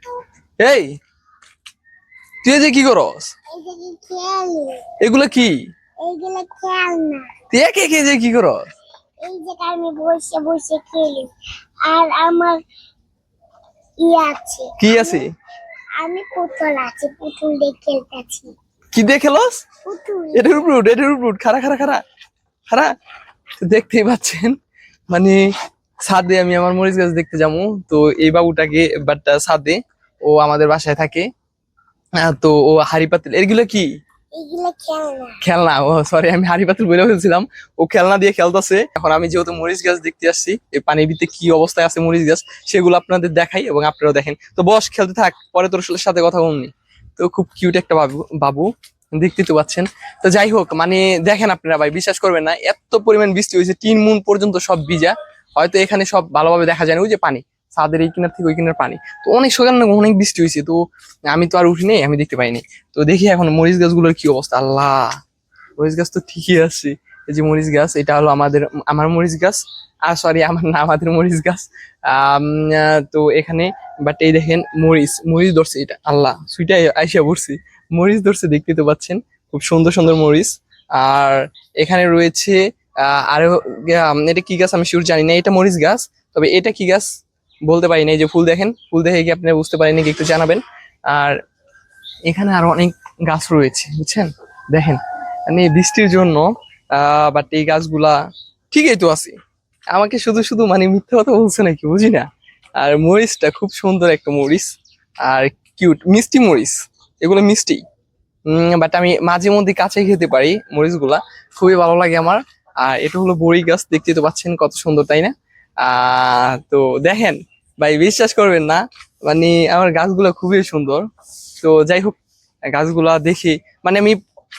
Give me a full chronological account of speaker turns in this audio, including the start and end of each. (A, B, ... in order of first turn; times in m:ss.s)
0:00.6-0:00.9 A
0:02.4-0:03.3 A
0:03.5-0:04.8 B
0:05.0-0:05.6 A
0:06.0-0:07.3 B
0:07.5-0:08.7 A
0:09.2-0:11.3 B
0:11.9-0:12.6 B
0:14.0-0:15.2 B
0:14.8-0:15.2 A
0:16.0-0:18.5 B
0:18.9-0:19.6 A
0:19.9-0:20.6 B
0:20.4-0:22.0 A
0:23.6-0:24.5 A
0:25.1-0:25.4 A
0:26.1-0:31.3 A
0:32.2-0:33.9 A
0:34.3-0:35.4 B
0:35.4-1:00.8 A
1:01.3-1:05.1 A
1:05.8-1:27.1 A
1:27.7-1:31.4 A
1:32.3-1:38.2 A
1:38.7-1:39.4 A
1:39.9-1:42.3 A
1:42.8-1:44.7 A
1:45.2-1:47.8 A
1:48.5-2:01.0 A
2:01.6-2:02.2 A
2:02.7-2:04.2 A